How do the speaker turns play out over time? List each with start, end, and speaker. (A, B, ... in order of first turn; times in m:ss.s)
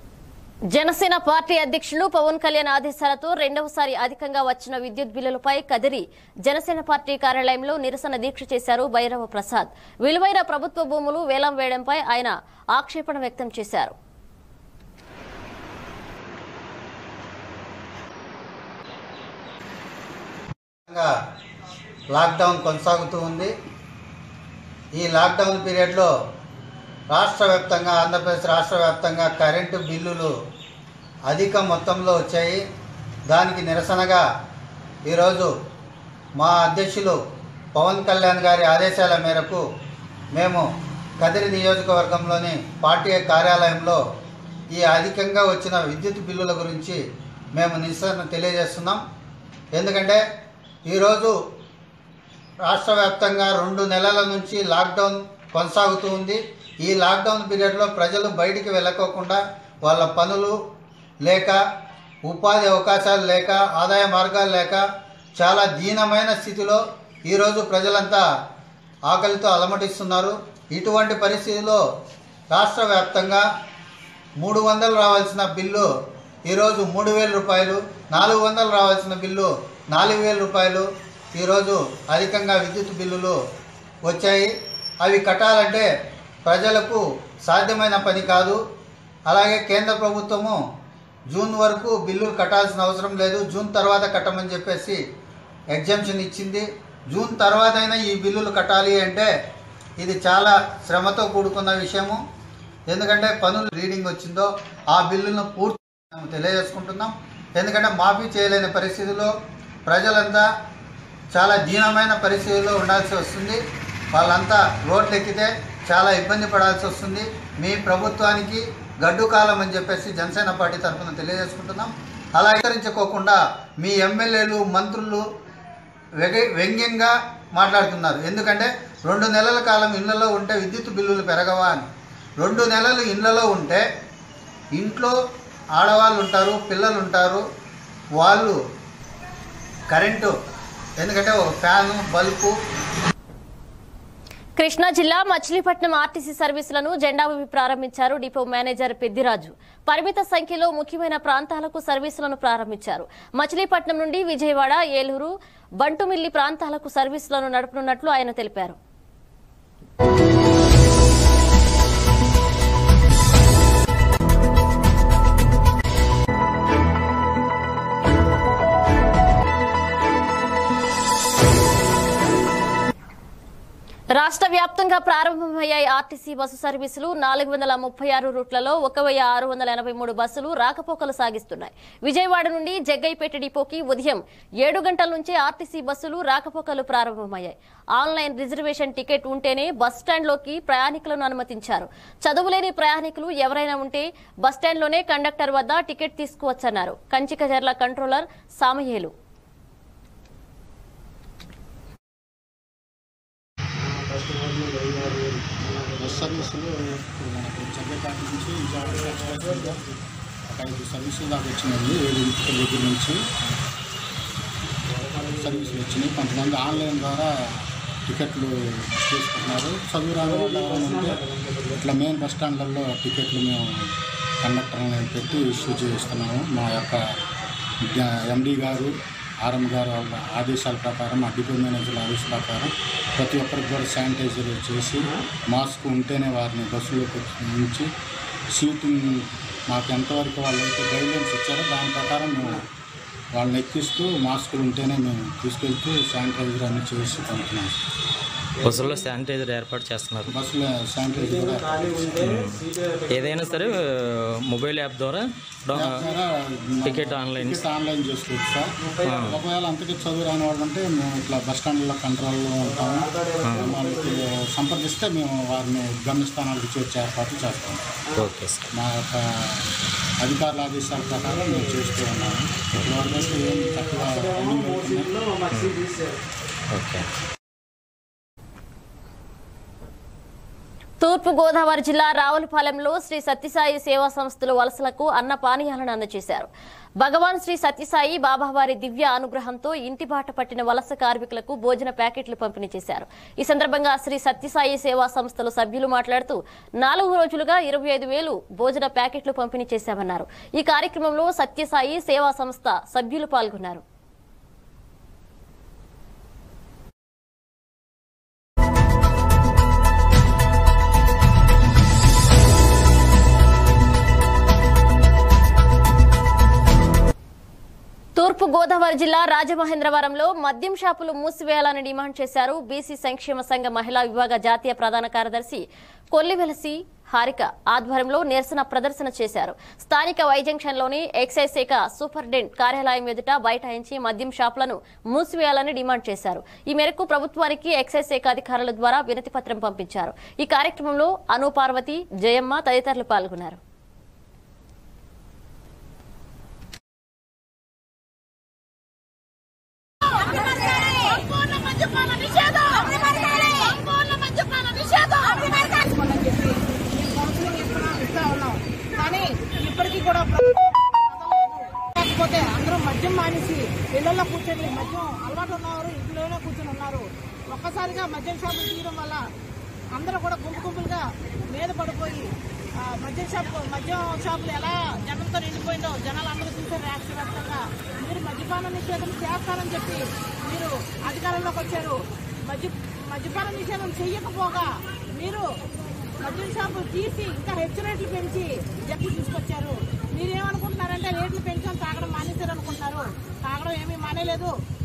0:00.7-0:13.9 A
0:20.9-0:21.1 B
0:22.1-0:23.5 B
0:24.9-0:26.1 B
0:27.1-0:30.3 B
0:31.3-0:32.6 B
0:33.3-0:34.2 B
0:35.1-0:35.5 B
0:36.4-0:37.2 B
0:37.8-0:39.6 B
0:40.4-0:40.6 B
0:41.2-0:44.0 B
0:44.7-0:47.0 B
0:47.6-0:49.0 B
0:49.7-0:50.2 B
0:50.9-0:51.4 B
0:52.7-1:00.6 B
1:01.2-1:01.6 B
1:02.3-1:04.8 B
1:05.4-1:08.2 B
1:09.1-1:11.8 B
1:12.5-1:13.4 B
1:14.4-1:15.9 B
1:16.5-1:23.4 B
1:24.1-1:24.5 B
1:25.0-1:25.9 B
1:26.5-1:28.6 B
1:29.3-1:30.6 B
1:31.3-1:35.0 B
1:35.7-1:39.3 B
1:40.0-1:42.2 B
1:42.9-1:49.3 B
1:49.9-1:50.5 B
1:51.3-1:53.6 B
1:54.1-2:05.2 B
2:06.2-2:11.9 B
2:12.4-2:13.8 B
2:14.8-2:15.2 B
2:15.8-2:17.4 B
2:18.2-2:18.6 B
2:19.9-2:20.3 B
2:21.0-2:22.5 B
2:24.6-2:38.8 A
2:54.2-3:19.1 A
3:25.9-3:29.8 C
3:30.5-3:33.2 C
3:35.3-3:37.3 C
3:38.1-3:41.2 C
3:41.7-3:43.7 C
3:44.4-3:47.0 C
3:47.9-3:57.9 C
3:58.5-4:02.6 C
4:03.4-4:07.8 C
4:08.6-4:10.3 D
4:10.3-4:12.2 C
4:12.2-4:16.0 D
4:15.7-4:18.7 C
4:16.8-4:17.6 D
4:19.0-4:19.4 D
4:19.3-4:27.8 C
4:28.2-4:28.7 D
4:28.8-4:29.2 C
4:30.2-4:35.2 C
4:35.5-4:35.8 D
4:36.7-4:37.0 D
4:41.0-4:46.5 A
4:47.0-5:03.8 A
5:18.2-5:43.6 A
5:50.2-6:09.2 E
6:10.0-6:12.3 E
6:13.0-6:25.5 E
6:26.2-6:34.5 E